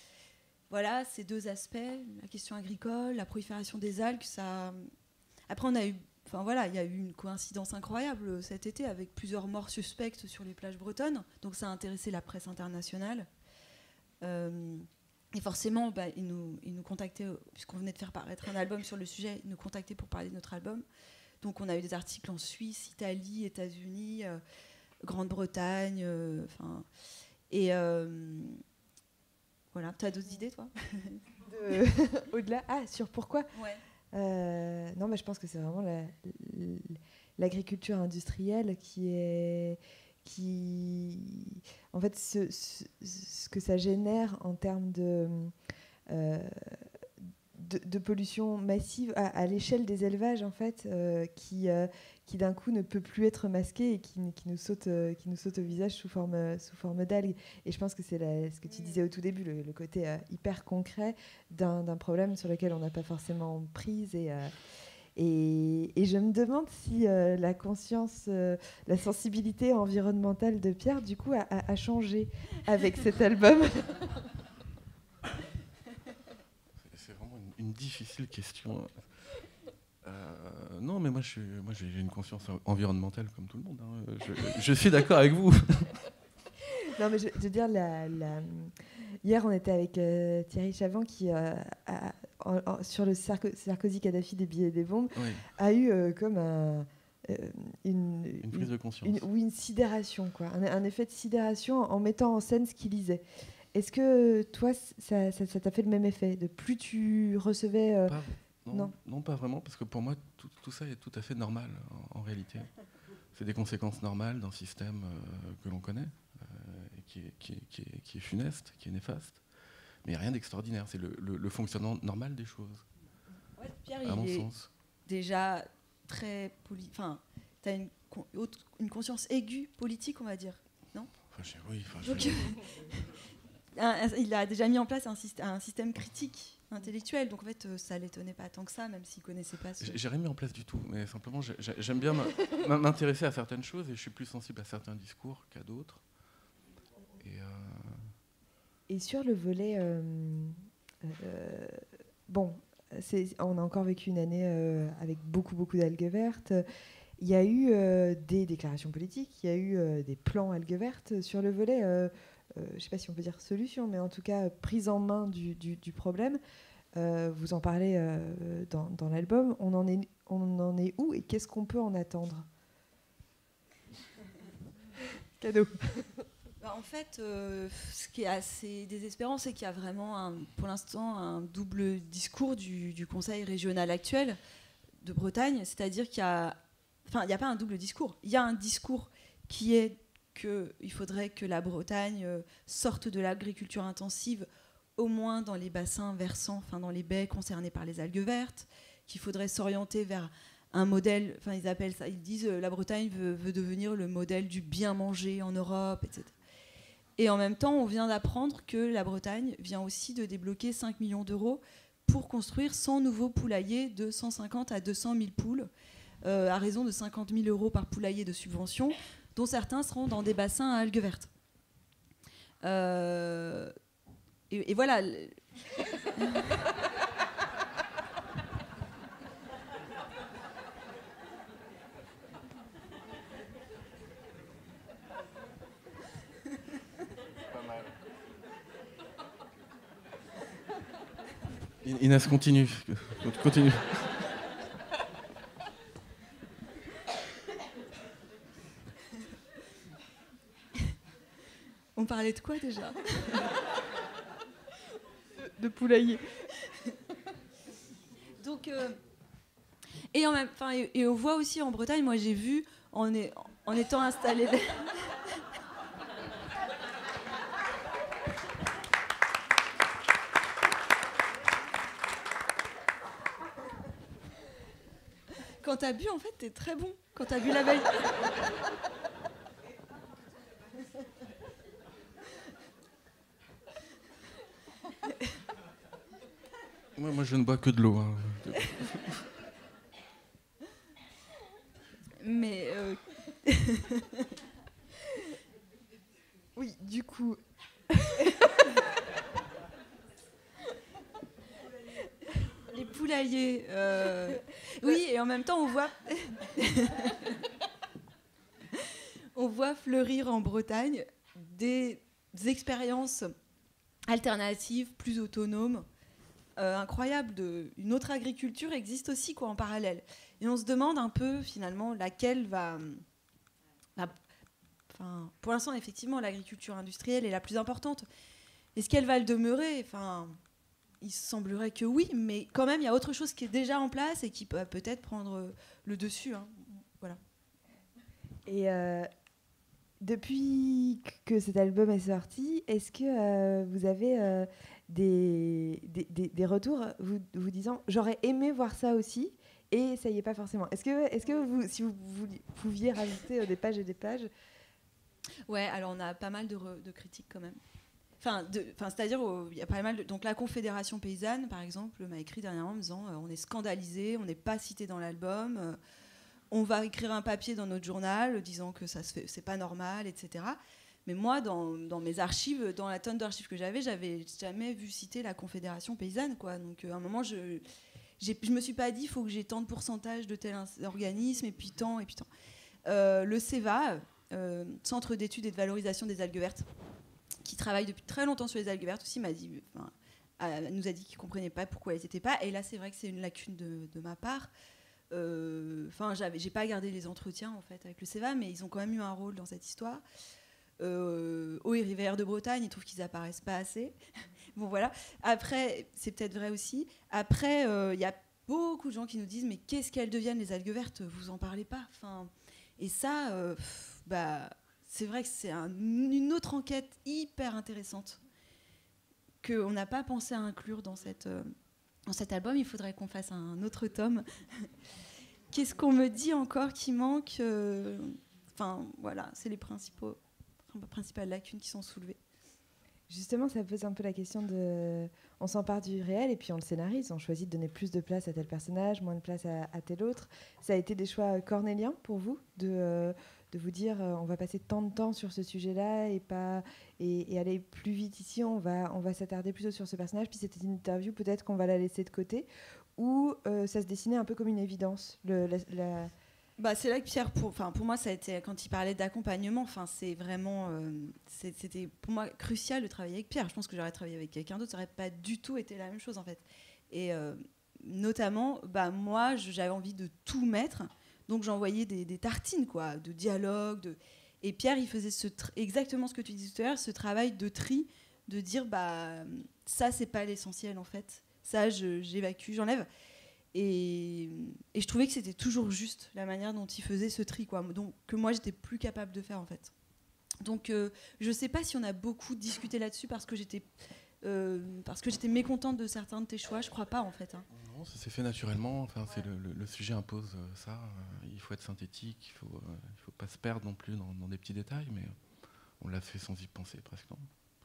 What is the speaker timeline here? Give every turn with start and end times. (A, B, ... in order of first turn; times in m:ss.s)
0:00.7-0:04.8 A
0:05.5-0:13.3 A
0:14.2-0:20.9 A
0:21.4-0:24.4 A
0:25.0-0:26.8 A
0:27.5-0:28.6 A
0:29.7-0:31.2 A
0:31.5-0:33.5 B
0:33.6-0:33.8 A
0:34.1-0:45.5 B
0:46.1-0:46.9 B
0:47.6-1:04.5 B
0:58.7-0:59.0 A
1:05.2-1:14.1 B
1:16.8-1:19.1 C
1:20.0-1:26.0 C
1:26.9-1:43.2 B
1:35.2-1:35.4 C
1:38.4-1:39.2 C
1:43.7-1:48.2 B
1:48.1-1:52.7 C
1:53.3-1:59.4 C
2:00.0-2:02.8 C
2:03.6-2:04.5 A
2:04.0-2:04.7 C
2:05.1-2:11.1 A
2:11.3-2:12.6 C
2:12.0-2:13.2 A
2:13.7-2:20.0 A
2:19.8-2:26.0 C
2:27.2-2:28.1 C
2:28.9-2:36.6 B
2:37.2-2:46.4 B
2:47.0-2:52.5 B
2:55.4-2:56.2 B
2:56.6-3:04.4 A
3:05.0-3:26.3 A
3:27.2-3:35.7 A
3:36.2-3:41.3 A
3:42.6-3:43.7 A
3:44.5-3:45.4 A
3:46.0-3:46.5 A
3:57.5-3:57.9 C
4:01.8-4:04.3 C
4:12.0-4:13.5 A
4:15.4-4:16.2 B
4:18.4-4:19.0 A
4:20.1-4:25.2 A
4:35.6-4:38.3 A
4:47.0-4:49.2 C
4:52.2-4:54.3 A
4:56.6-4:57.4 B
5:02.5-5:07.4 A
5:08.7-5:13.3 A
5:14.1-5:15.8 A
5:16.6-5:23.0 A
5:24.9-5:28.1 A
5:28.8-5:30.4 A
5:31.0-5:37.2 A
5:38.5-5:39.1 B
5:40.0-5:54.3 B
5:55.5-5:57.6 A
5:58.2-6:05.8 A
6:06.5-6:17.6 A
6:18.2-6:22.3 A
6:22.9-6:26.6 A
6:27.4-6:34.5 A
6:35.1-6:40.0 A
6:40.8-6:44.0 A
6:44.6-6:58.2 A
6:59.4-7:01.5 A
7:02.1-7:04.7 A
7:05.5-7:10.2 A
7:10.7-7:12.2 A
7:13.1-7:36.1 B
7:36.6-8:02.9 A
8:03.5-8:09.7 A
8:10.4-8:13.7 A
8:14.2-8:17.5 A
8:17.5-8:25.2 C
8:25.8-8:27.3 C